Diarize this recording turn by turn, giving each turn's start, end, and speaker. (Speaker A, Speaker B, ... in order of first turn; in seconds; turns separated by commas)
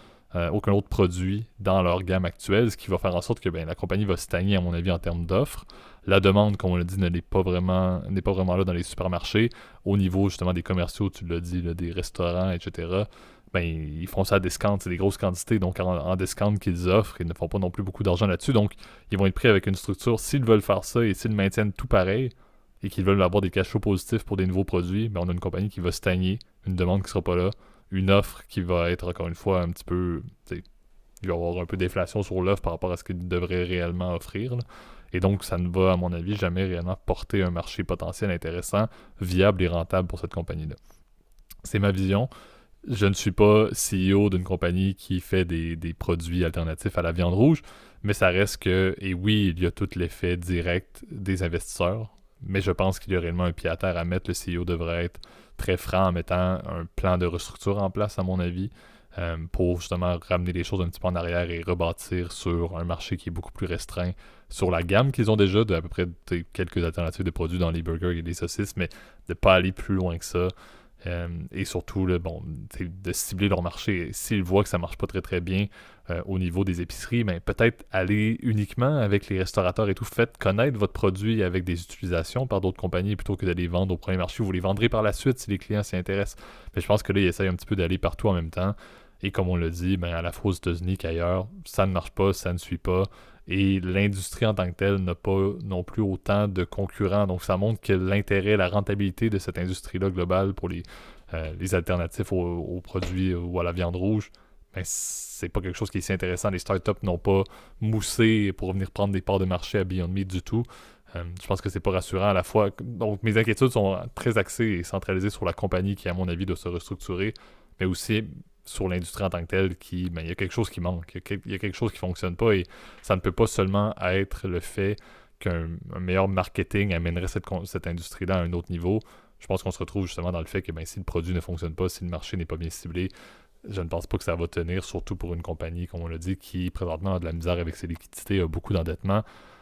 Speaker A: 0.3-30.6, Speaker A: 31.2-40.8, Speaker A: 41.6-42.3, Speaker A: 42.9-133.1, Speaker A: 133.6-139.2